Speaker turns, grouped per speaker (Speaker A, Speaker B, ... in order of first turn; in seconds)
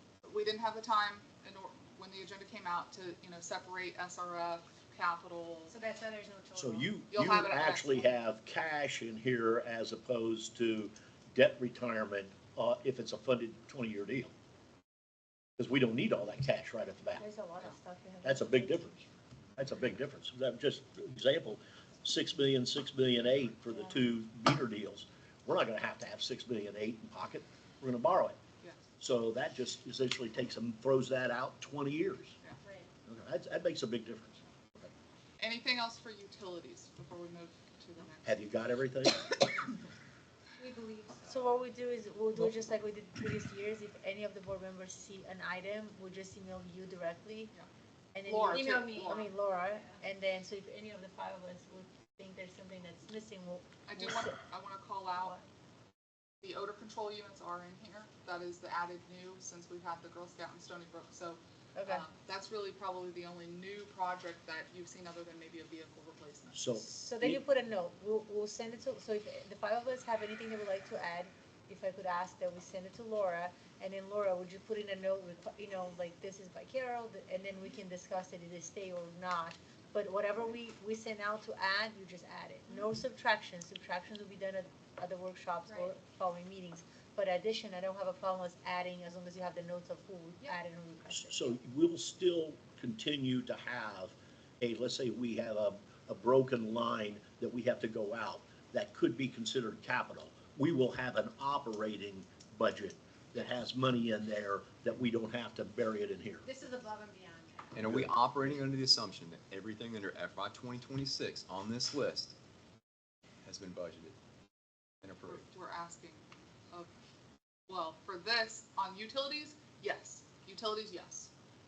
Speaker A: 0.2-5.7, 7.1-8.1, 35.4-38.3, 48.2-49.3, 53.9-55.4, 56.4-66.6, 115.2-116.9, 117.7-121.3
Speaker B: 5.7-6.9, 32.6-32.9, 40.6-41.4, 48.5-49.0, 106.4-107.8
Speaker C: 6.5-14.3, 15.6-17.2, 18.2-19.0, 19.6-28.4, 29.0-32.4, 33.1-34.9, 38.2-39.7, 66.5-67.4, 91.1-106.5, 107.8-108.6
Speaker D: 17.2-19.0, 41.2-47.5, 48.1-54.4, 55.2-55.4, 61.8-62.0, 66.8-91.5
Speaker E: 107.7-112.3, 113.4-114.2, 115.0-115.5